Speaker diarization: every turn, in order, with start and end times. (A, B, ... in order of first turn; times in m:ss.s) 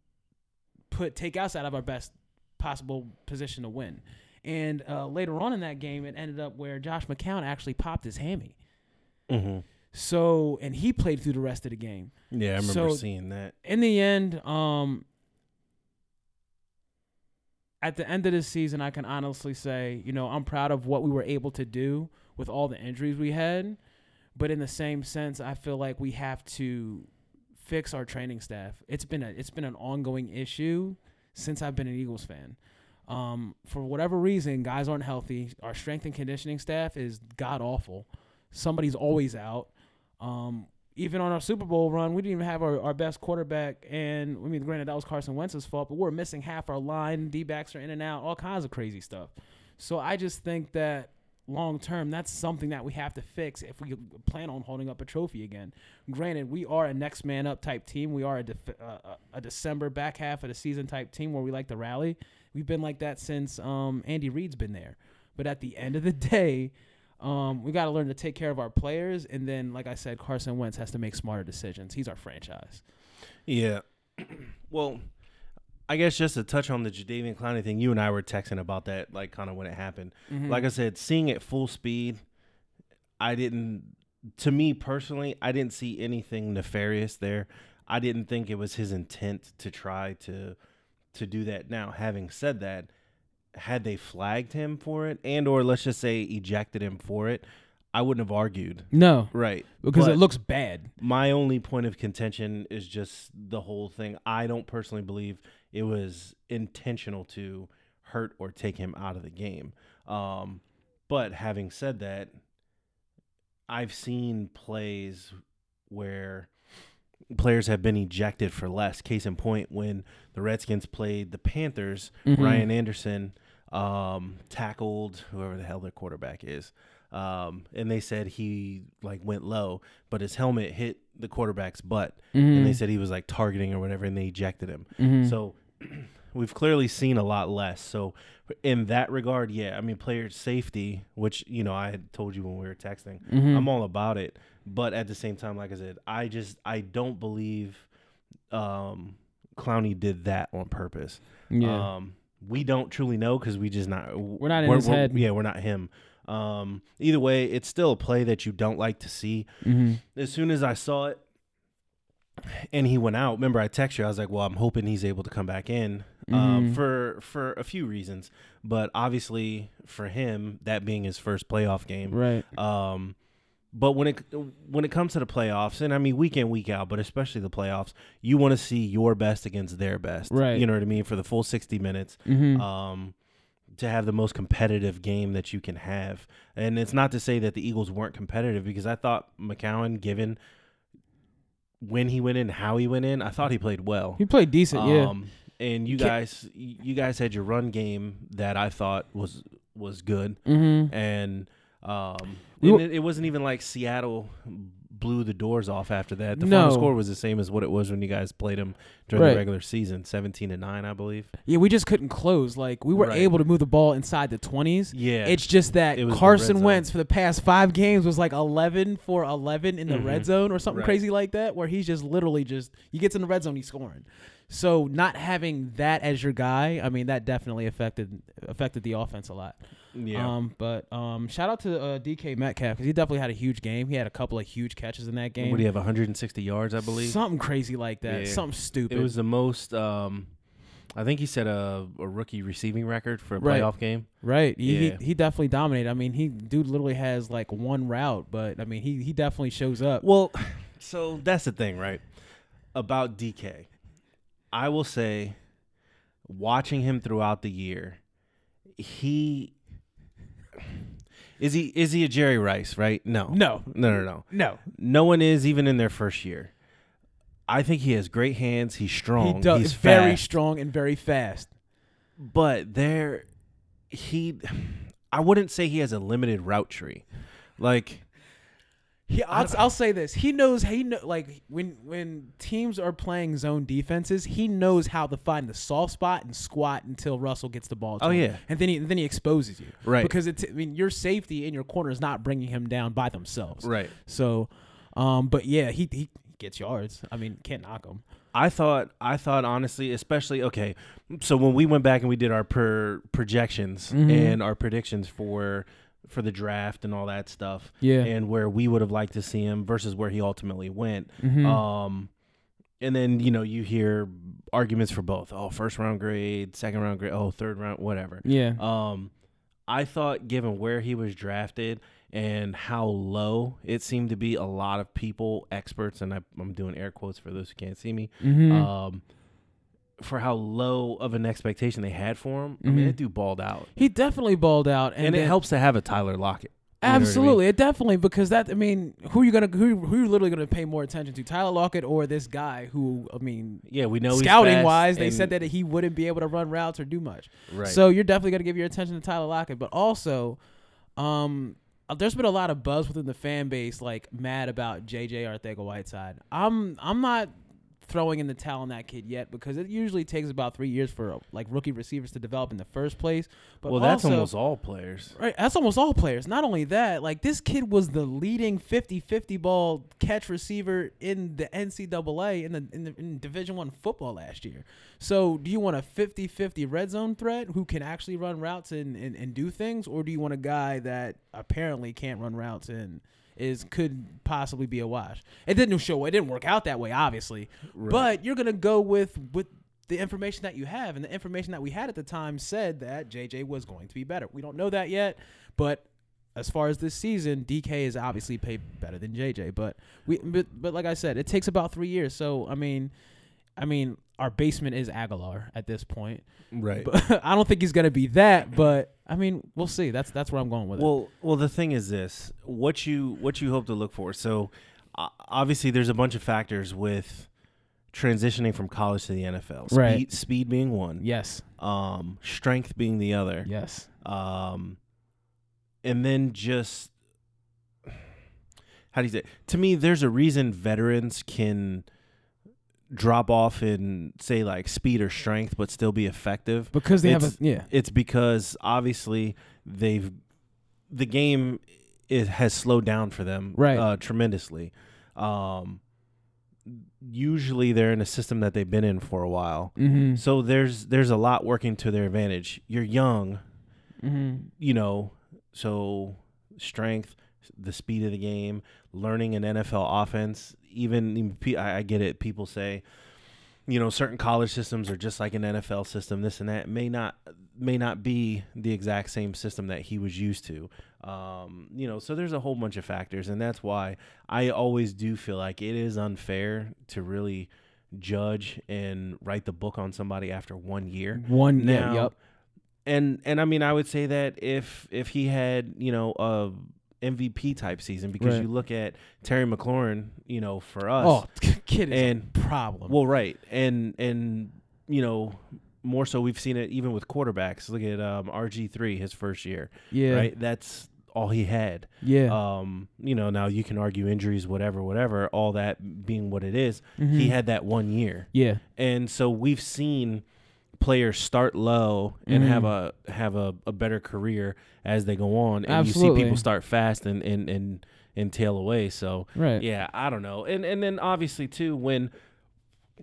0:00.9-0:08.6 A
0:09.3-0:09.6 B
0:09.9-0:13.0 A
0:12.3-0:13.6 B
0:13.6-0:15.0 A
0:17.8-0:23.8 A
0:24.4-1:12.8 A
1:13.5-1:15.1 B
1:15.9-1:22.2 B
1:20.3-1:20.7 A
1:23.2-1:30.6 B
1:31.1-1:32.9 B
1:33.5-1:40.2 B
1:38.9-1:40.9 A
1:41.0-1:52.4 B
1:53.7-1:55.4 B
1:55.9-1:56.5 B
1:57.3-2:27.9 B
2:02.3-2:02.7 A
2:12.3-2:12.8 A
2:15.0-2:15.4 A
2:23.3-2:23.7 A
2:28.5-2:39.5 B
2:31.5-2:31.9 A
2:34.4-2:35.3 A
2:39.6-2:40.0 A
2:40.1-2:41.2 B
2:42.4-2:53.2 B
2:46.3-2:46.8 A
2:52.1-2:52.4 A
2:53.7-3:03.1 B
3:00.3-3:00.6 A
3:02.3-3:02.6 A
3:03.7-3:10.4 B
3:11.8-3:31.3 B
3:14.2-3:15.1 A
3:20.5-3:20.9 A
3:26.4-3:26.9 A
3:29.1-3:29.4 A
3:31.5-3:49.6 A
3:33.0-3:33.3 B
3:34.9-3:36.8 B
3:39.9-3:41.0 B
3:50.0-3:50.4 B
3:50.1-3:55.6 A
3:55.4-3:57.2 B
3:56.8-3:59.1 A
3:58.1-4:00.3 B
4:01.0-4:05.0 B
4:03.4-4:10.0 A
4:10.0-4:12.1 B
4:12.7-4:13.7 B
4:14.5-4:15.4 B
4:16.2-4:18.0 B
4:18.8-4:19.5 B
4:21.4-4:26.5 B
4:23.3-4:24.6 A
4:27.5-4:30.2 B
4:29.2-4:31.5 A
4:32.2-4:33.3 B
4:33.9-4:37.0 B
4:37.6-4:38.0 B
4:39.1-4:58.0 A
4:39.3-4:39.6 B
4:48.0-4:48.4 B
4:49.8-4:50.1 B
4:53.6-4:53.9 B
4:58.3-5:12.1 B
5:03.9-5:04.4 A
5:07.8-5:08.1 A
5:11.2-5:11.6 A
5:12.8-5:19.1 B
5:18.2-5:18.6 A
5:19.7-5:29.0 B
5:28.2-5:28.7 A
5:30.0-5:33.7 B
5:32.6-5:33.0 A
5:33.8-5:35.4 A
5:35.0-5:37.4 B
5:36.8-5:50.4 A
5:43.7-5:45.3 B
5:47.5-5:47.8 B
5:51.0-5:57.3 A
5:57.8-6:04.3 A
6:03.7-6:05.2 B
6:05.2-6:42.9 A
6:27.7-6:28.1 B
6:43.6-6:50.9 A
6:46.5-6:46.9 B
6:50.8-6:57.3 B
6:57.9-7:01.1 B
6:59.7-7:00.0 A
7:01.0-7:01.4 A
7:01.6-7:04.8 B
7:03.4-7:03.9 A
7:05.8-7:06.9 B
7:08.9-7:11.9 B
7:12.9-7:20.2 B
7:16.7-7:17.7 A
7:20.9-7:25.8 B
7:23.6-7:23.8 A
7:26.7-7:33.4 B
7:29.8-7:30.2 A
7:34.0-7:34.5 A
7:34.6-7:42.8 B
7:43.7-8:02.2 B
8:01.1-8:02.1 A
8:02.8-8:11.3 B
8:08.2-8:08.5 A
8:11.0-8:13.0 A
8:11.9-8:30.2 B
8:19.9-8:20.3 A
8:22.0-8:22.4 A
8:27.0-8:27.4 A
8:28.3-8:28.6 A
8:30.8-8:42.1 B
8:32.3-8:32.7 A
8:35.7-8:36.4 A
8:39.4-8:39.6 A